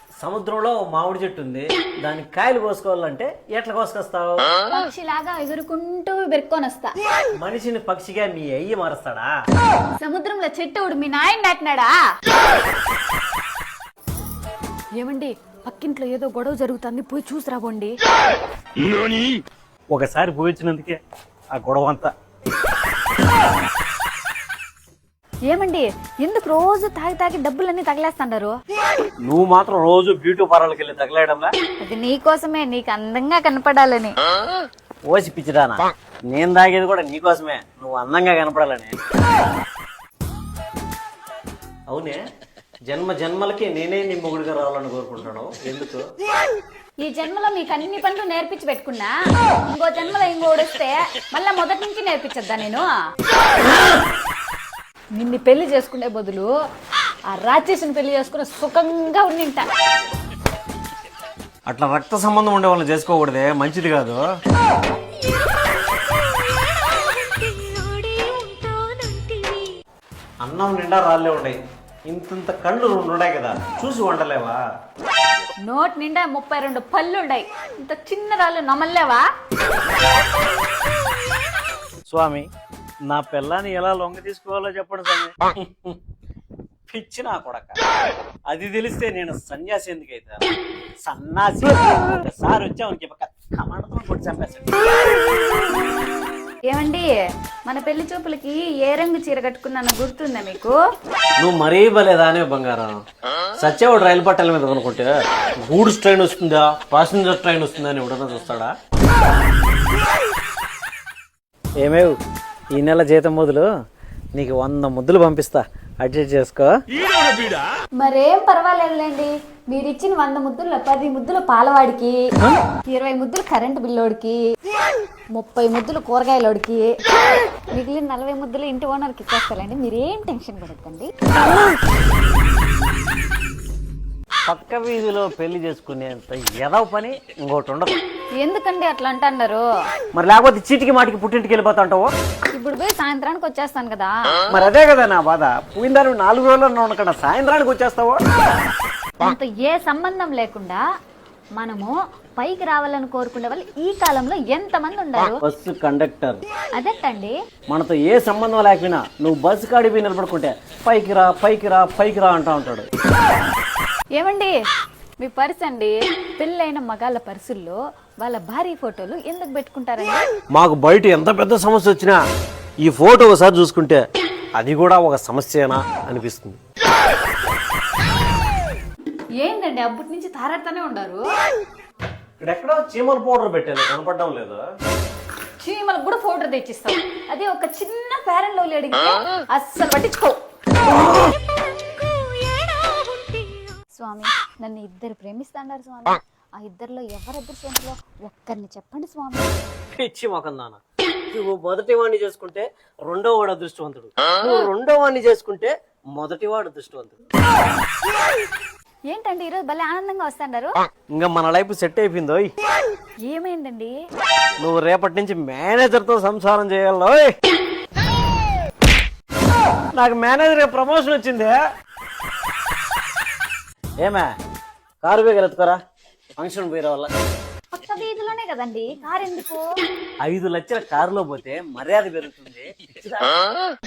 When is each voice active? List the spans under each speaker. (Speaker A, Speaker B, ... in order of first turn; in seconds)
Speaker A: 0.2-4.5, 7.4-9.3, 18.8-19.4, 19.9-21.0, 21.5-22.1, 29.2-31.5, 35.1-39.0, 41.9-42.2, 42.9-46.0, 61.7-64.2, 70.4-74.6, 82.1-82.5, 83.1-86.0, 86.9-87.8, 88.5-94.8, 101.4-102.9, 103.6-108.7, 111.8-112.2, 112.7-113.7, 114.3-116.8, 134.5-138.0, 140.1-142.1, 144.5-148.2, 155.4-156.4, 157.7-162.9, 170.5-172.2, 172.8-174.0, 174.6-176.6, 182.4-184.6, 199.9-200.8, 201.3-207.2, 211.1-212.5, 214.6-217.3, 219.9-221.6, 224.0-224.3, 225.0-225.8, 226.4-227.1, 230.2-233.3
Speaker B: 4.7-6.9, 10.0-11.9, 15.0-17.9, 25.5-28.6, 31.8-34.1, 47.0-49.1, 49.7-52.9, 55.1-56.5, 57.3-59.6, 66.7-69.7, 75.6-79.2, 96.7-97.1, 97.7-100.8, 118.0-122.2, 122.9-124.4, 125.3-126.9, 127.7-131.1, 138.4-139.7, 142.5-144.1, 149.2-150.8, 151.6-155.4, 156.8-157.3, 164.2-164.5, 165.2-170.2, 179.4-181.2, 185.6-190.4, 192.8-199.5, 209.1-210.7, 213.2-213.9, 227.7-229.7